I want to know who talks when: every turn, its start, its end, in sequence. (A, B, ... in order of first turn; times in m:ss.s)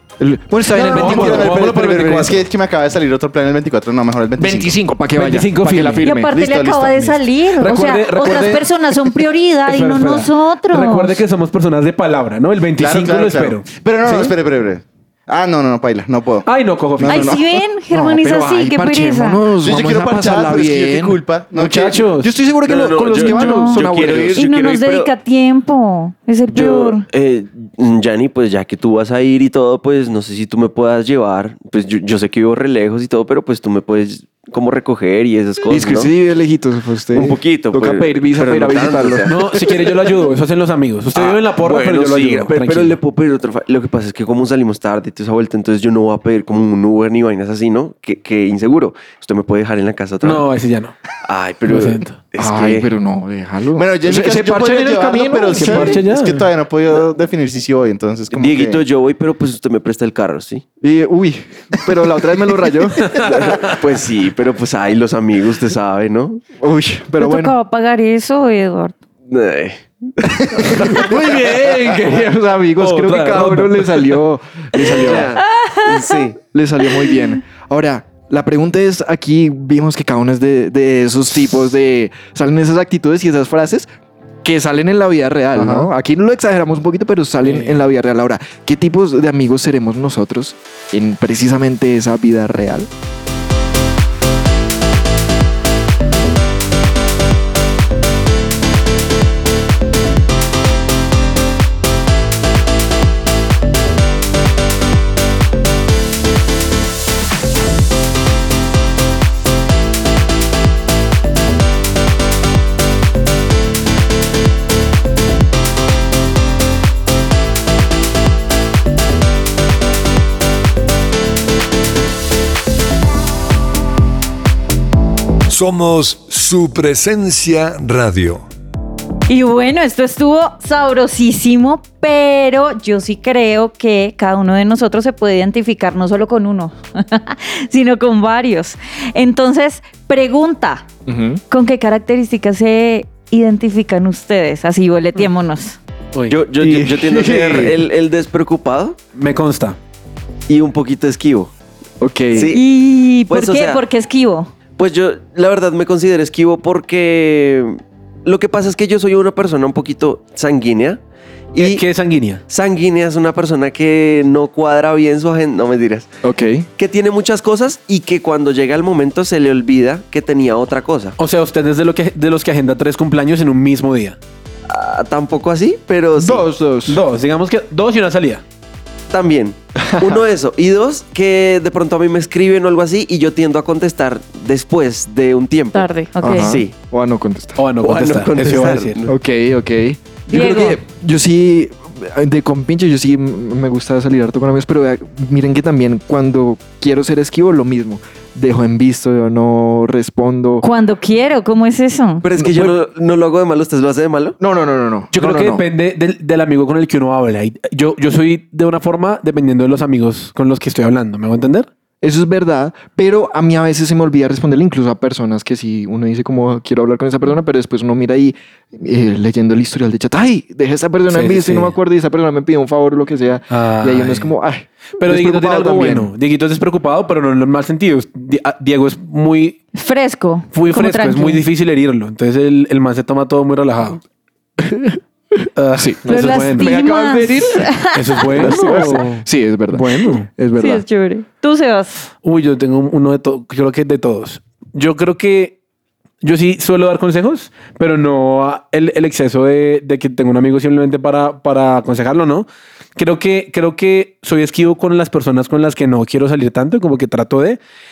0:00.2-0:01.6 A
0:00.7-0:04.8 B
0:00.8-0:02.5 C
0:04.4-0:06.3 A
0:05.2-0:06.2 C
0:06.0-0:11.2 D
0:06.3-0:07.2 B
0:07.5-0:14.3 C
0:12.8-0:17.4 B
0:16.4-0:17.4 C
0:17.1-0:19.4 D
0:17.9-0:24.4 A
0:19.6-0:22.1 B
0:21.6-0:22.3 C
0:22.6-0:25.1 E
0:23.2-0:23.8 D
0:24.4-0:27.1 D
0:26.5-0:36.1 E
0:35.7-0:39.6 A
0:37.1-0:40.0 E
0:39.3-0:43.0 C
0:41.1-0:50.4 E
0:50.2-0:50.9 C
0:51.2-0:52.9 E
0:51.7-0:52.2 C
0:52.4-0:56.0 A
0:53.8-0:58.8 B
0:55.6-0:56.5 C
0:58.3-1:00.6 E
1:00.8-1:03.3 A
1:03.0-1:03.6 C
1:03.1-1:06.4 E
1:06.6-1:07.6 A
1:07.2-1:09.0 D
1:09.3-1:11.2 E
1:10.6-1:15.4 A
1:12.8-1:14.1 C
1:14.8-1:16.4 E
1:15.5-1:16.1 D
1:16.4-1:23.9 A
1:24.4-1:32.9 A
1:25.6-1:25.9 B
1:27.4-1:27.8 C
2:05.5-2:08.4 F
2:09.3-2:20.9 D
2:21.1-2:21.4 A
2:21.5-2:25.8 D
2:26.3-2:29.0 E
2:26.6-2:27.8 A
2:29.2-2:29.8 C
2:30.5-2:31.5 E
2:32.0-2:32.5 A
2:32.3-2:32.6 E
2:32.5-2:34.5 D
2:33.3-2:33.8 E
2:34.8-2:41.0 E
2:41.5-2:41.8 E
2:41.6-2:42.4 C
2:42.5-2:46.1 E
2:46.2-2:46.7 A
2:46.8-2:51.2 E
2:51.2-2:54.2 C
2:54.7-2:56.5 E
2:56.2-2:57.0 A
2:56.9-2:58.4 C
2:59.1-3:06.7 E
3:05.7-3:06.5 D
3:06.2-3:07.6 A
3:07.6-3:09.1 C
3:07.8-3:09.1 E
3:09.1-3:20.6 A
3:10.3-3:10.8 D
3:20.6-3:22.2 D
3:22.2-3:24.4 E
3:22.4-3:22.8 A
3:24.4-3:25.6 A
3:25.1-3:31.7 C
3:32.0-3:46.1 A
3:41.1-3:41.8 C
3:43.5-3:44.3 C
3:45.0-3:49.6 C
3:49.8-3:51.4 D
3:50.5-3:54.0 C
3:54.6-3:55.0 A
3:55.6-3:57.0 C
3:55.8-3:57.7 A
3:56.1-3:59.0 D
3:57.9-4:00.3 C
3:58.3-4:00.8 A
4:00.6-4:02.1 D
4:02.2-4:05.6 C
4:06.2-4:17.6 C